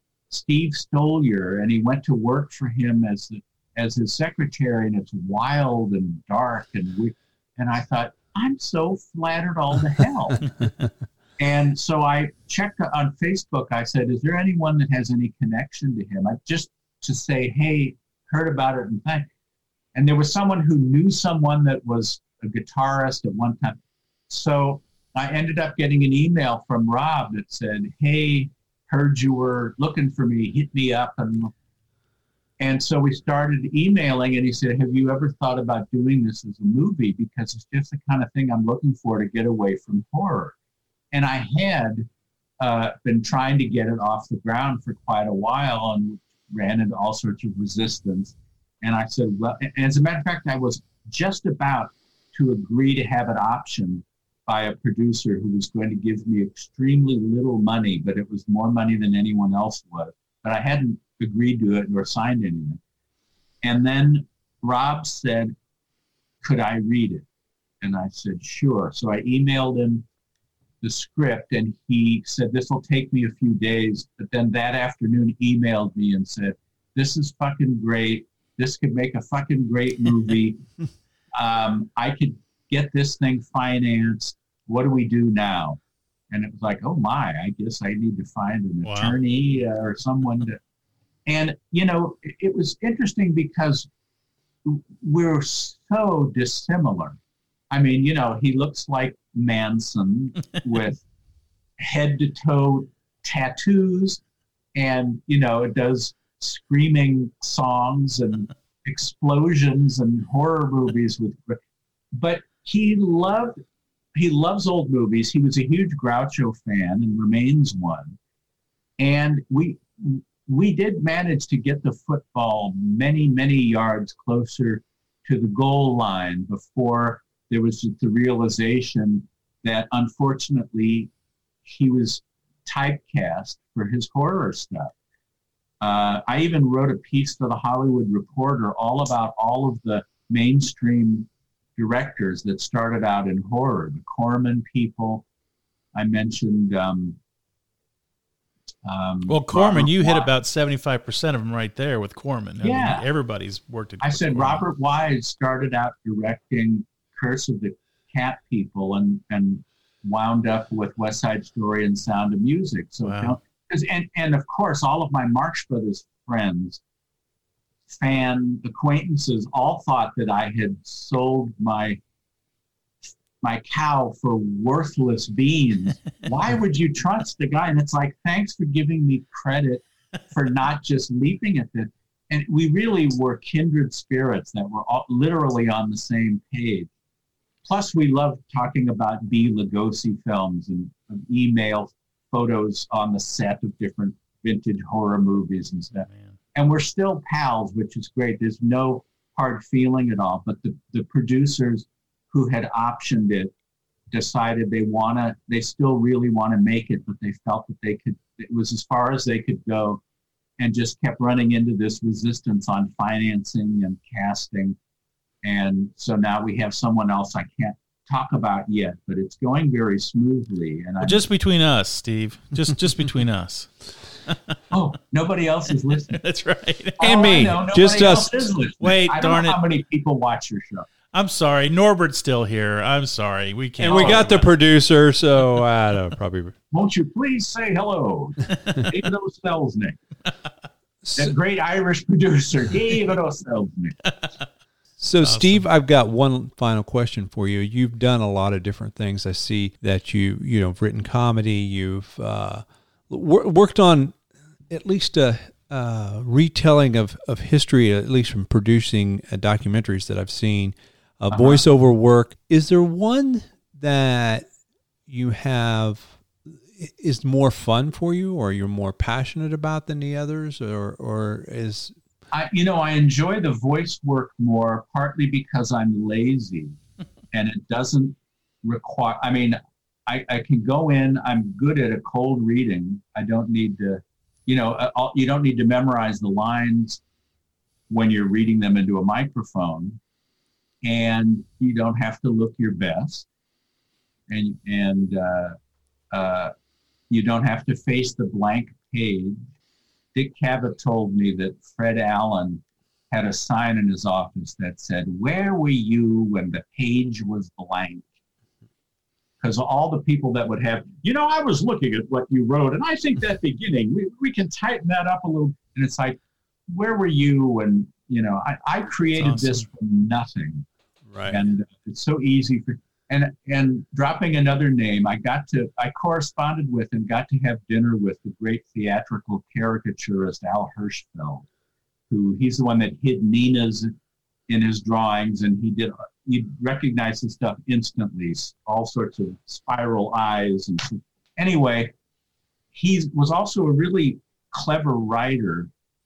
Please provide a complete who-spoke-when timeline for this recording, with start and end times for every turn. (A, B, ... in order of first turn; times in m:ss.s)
0:00.3-0:10.5 A
0:11.4-0:19.3 A
0:20.0-0:23.8 A
0:24.3-0:31.5 A
0:32.6-0:40.6 A
0:41.1-0:42.1 A
0:42.6-1:02.8 A
1:03.6-1:05.5 A
1:06.4-1:07.2 A
1:07.8-1:10.0 A
1:10.8-1:20.6 A
1:21.4-1:25.8 A
1:26.3-1:30.6 A
1:28.8-1:29.2 B
1:31.3-1:33.9 A
1:34.6-1:37.2 A
1:37.7-1:41.0 A
1:41.8-1:44.2 A
1:44.8-1:51.6 A
1:52.2-1:53.6 A
1:54.2-1:58.2 A
1:59.0-2:11.1 A
2:11.6-2:14.9 A
2:15.8-2:25.2 A
2:26.0-2:27.2 A
2:28.8-2:30.3 A
2:29.3-2:34.6 B
2:32.6-2:33.0 A
2:34.0-2:46.8 A
2:43.0-2:43.4 B
2:47.9-2:52.0 A
2:53.4-3:06.9 A
3:07.6-3:23.5 A
3:24.1-3:30.0 A
3:30.6-3:34.8 A
3:35.4-3:41.2 A
3:41.0-3:43.7 B
3:44.7-3:46.2 A
3:46.1-3:47.0 B
3:47.0-3:50.9 A
3:47.0-3:48.5 C
3:48.8-3:49.6 B
3:51.1-3:54.5 B
3:53.8-3:56.6 C
3:53.9-3:54.2 A
3:56.7-4:00.0 A
4:01.0-4:01.3 C
4:01.1-4:04.0 A
4:05.0-4:14.2 C
4:05.2-4:05.6 B
4:14.7-4:24.5 C
4:21.3-4:21.6 A
4:25.1-4:32.0 C
4:32.3-4:36.8 A
4:37.3-4:47.0 A
4:47.9-4:50.0 A
4:50.8-4:53.3 A
4:54.3-4:55.6 A
4:56.1-4:56.5 A
4:57.1-4:59.4 A
5:00.2-5:08.1 A
5:09.4-5:20.7 A
5:19.2-5:19.6 B
5:21.1-5:21.4 C
5:21.3-5:31.5 A
5:32.1-5:33.9 A
5:34.5-5:41.9 A
5:42.7-5:45.7 A